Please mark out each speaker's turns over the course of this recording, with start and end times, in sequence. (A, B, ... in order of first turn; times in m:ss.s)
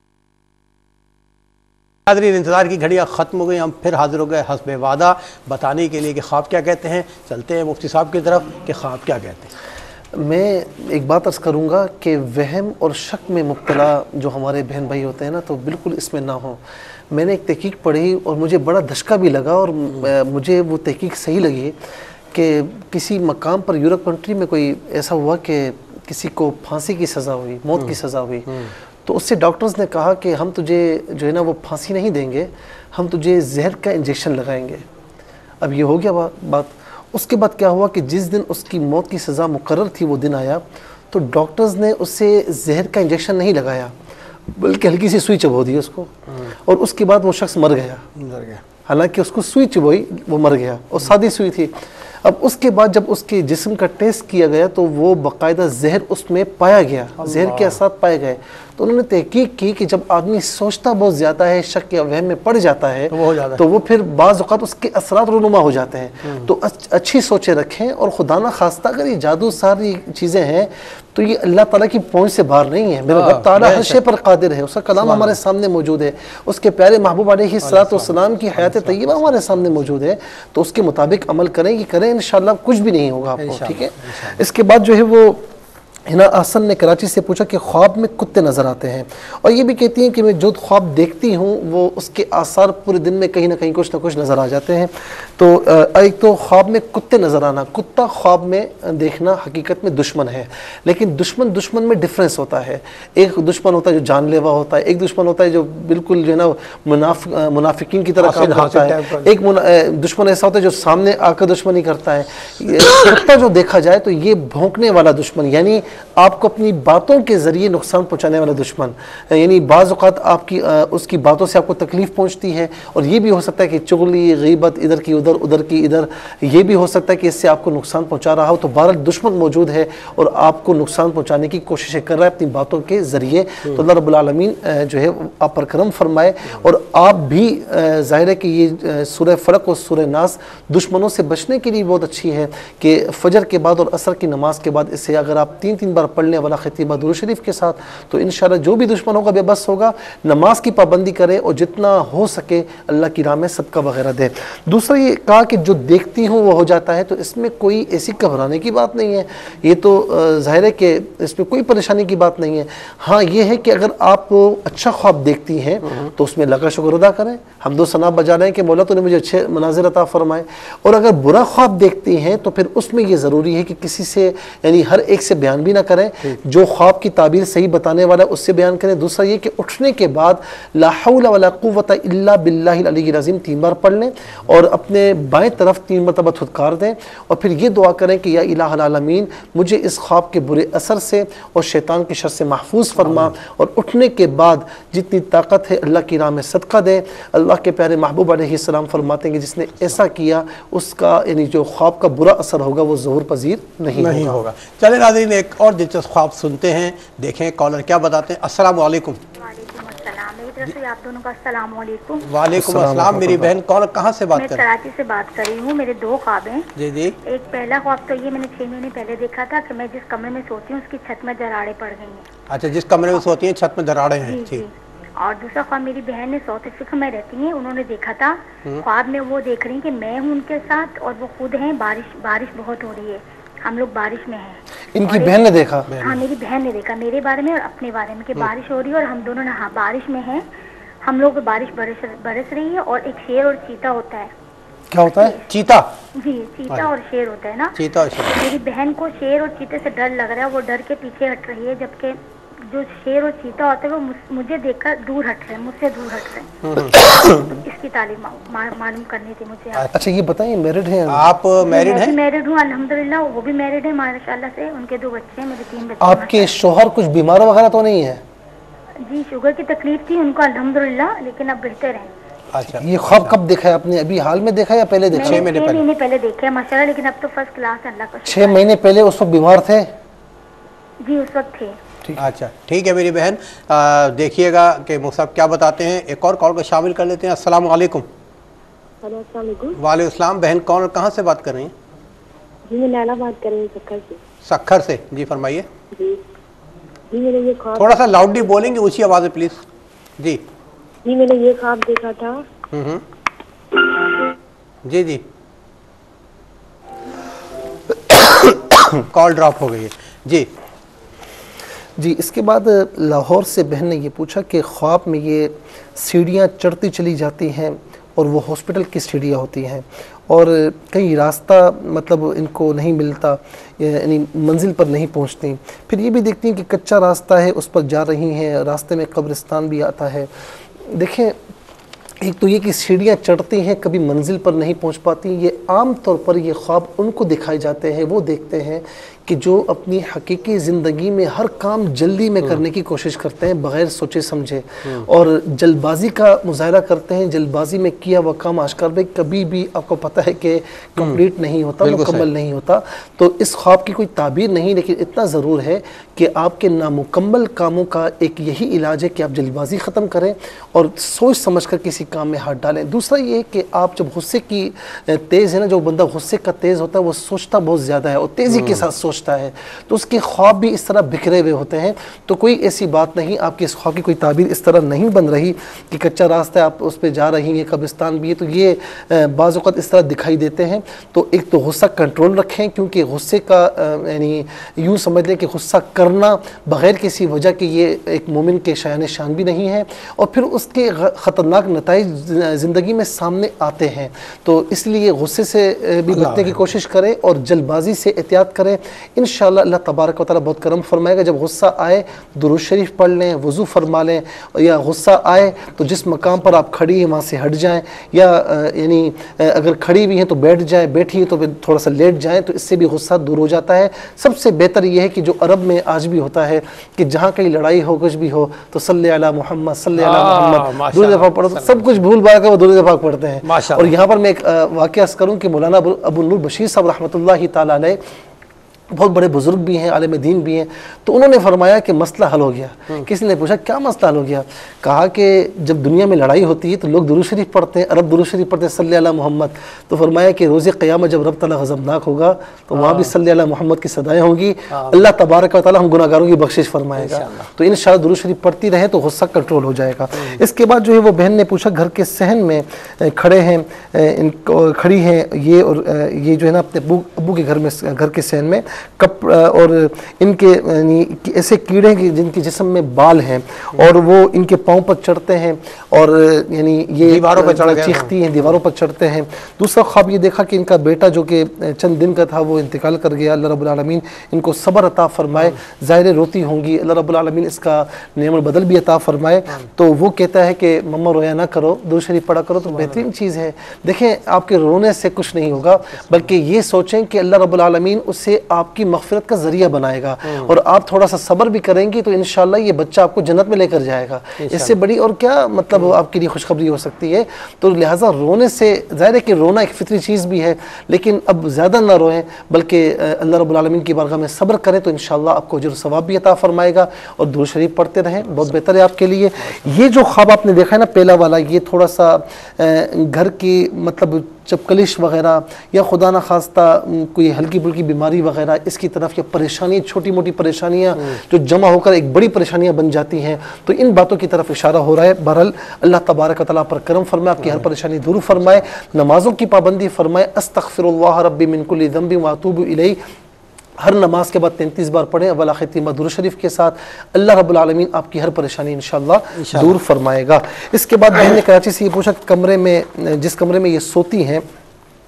0:02.1-0:09.5 A
0:10.1-0:21.8 B
0:22.3-0:34.9 B
0:35.6-0:43.9 B
0:44.5-0:48.1 B
0:48.2-0:48.6 A
0:48.9-1:25.5 B
0:57.2-0:57.8 A
1:03.1-1:03.6 A
1:06.2-1:06.5 A
1:13.1-1:14.0 A
1:15.0-1:15.4 A
1:17.6-1:19.4 A
1:23.4-1:24.4 A
1:26.1-3:24.4 B
1:48.2-1:49.3 A
3:13.0-3:13.3 A
3:23.9-3:29.2 A
3:29.4-3:32.3 C
3:32.2-3:34.6 A
3:32.5-3:33.5 B
3:34.3-3:36.7 C
3:36.8-3:37.2 A
3:37.3-3:42.3 C
3:42.5-3:44.6 A
3:44.2-4:00.5 C
3:55.0-3:55.9 B
3:55.9-3:56.2 A
4:01.0-4:04.3 C
4:04.9-4:05.4 B
4:05.1-4:05.4 C
4:05.5-4:05.9 A
4:06.2-4:19.9 C
4:07.8-4:08.4 A
4:16.6-4:17.0 A
4:19.9-4:21.3 B
4:21.1-4:22.2 A
4:21.6-4:26.6 C
4:26.0-4:28.2 B
4:29.0-4:32.1 C
4:32.5-4:33.4 A
4:32.6-4:35.5 B
4:35.1-4:38.7 C
4:35.2-4:35.8 A
4:38.2-4:39.9 B
4:41.0-4:41.8 C
4:42.2-4:48.0 A
4:49.0-4:49.8 D
4:49.8-4:51.7 A
4:52.7-4:54.2 D
4:54.4-4:55.7 A
4:57.1-4:58.6 D
4:57.8-4:59.6 A
5:01.1-5:02.4 D
5:02.7-5:03.0 A
5:04.9-5:05.2 A
5:08.9-5:10.5 A
5:12.0-5:31.4 B
5:32.2-7:08.0 B
5:51.8-5:52.3 A
6:08.5-6:08.8 A
6:36.1-6:36.6 A
7:00.0-7:02.0 A
7:03.4-7:04.0 A
7:08.9-8:53.0 B
7:22.7-7:23.1 A
7:24.7-7:25.1 A
7:27.0-7:27.5 A
7:47.0-7:48.1 A
8:02.7-8:03.0 A
8:10.2-8:10.5 A
8:14.4-8:14.7 A
8:47.4-8:47.7 A
8:53.8-9:04.4 B
8:59.4-8:59.7 A